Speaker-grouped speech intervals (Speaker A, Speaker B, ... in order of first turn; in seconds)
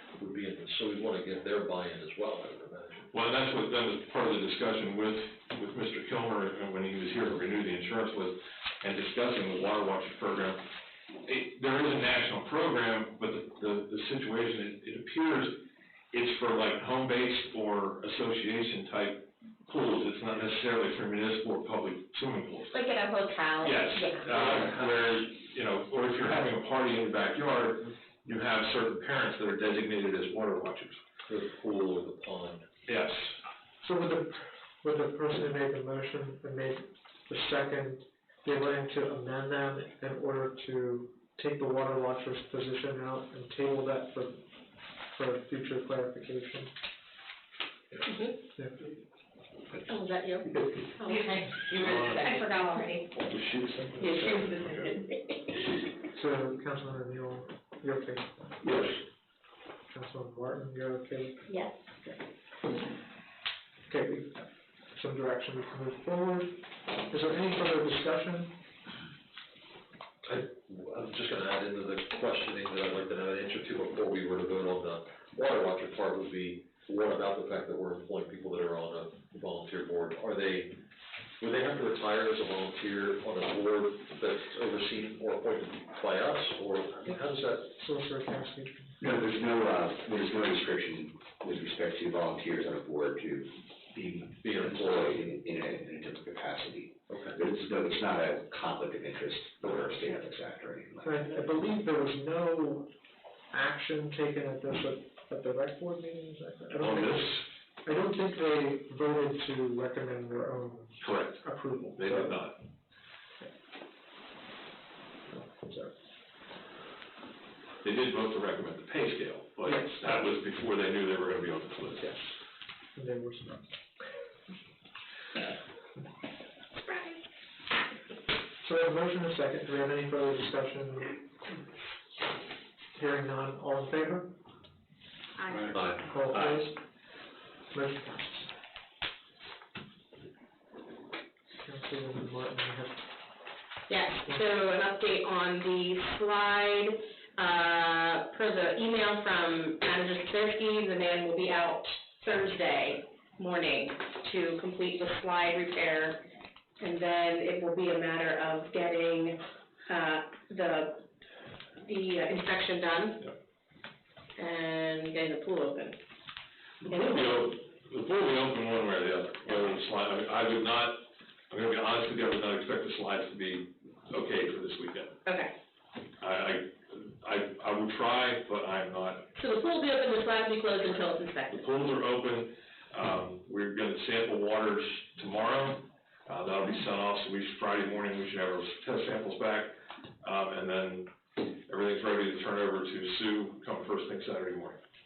Speaker A: 0.2-3.1, 24.4-24.9, 31.3-32.6, 70.3-80.7, 81.4-87.8, 94.4-95.3, 97.1-97.4, 135.7-136.0
Speaker B: 3.1-10.6, 11.3-15.6, 16.1-22.8, 23.6-31.0, 32.9-33.3, 53.5-54.3, 106.8-107.4, 111.0-112.6, 117.8-122.2, 166.8-175.2, 176.2-179.2, 181.5-191.1, 191.7-194.8
Speaker C: 22.7-24.6, 51.0-53.0
Speaker D: 33.8-44.4, 45.1-46.7, 56.1-58.5, 59.9-61.4, 63.9-68.6, 87.8-89.0, 101.0-102.9, 103.5-112.5, 115.3-115.9, 119.6-120.2, 123.0-123.7, 128.6-131.6, 133.0-134.3, 136.1-136.7, 137.7-138.5, 141.6-143.1
Speaker E: 48.0-48.3, 49.9-53.0, 54.0-55.0, 126.8-127.2, 135.4-135.8, 143.9-156.2, 156.8-161.0, 161.8-163.2, 164.4-165.9, 166.9-167.5, 175.3-175.5, 179.4-181.7
Speaker F: 89.0-101.3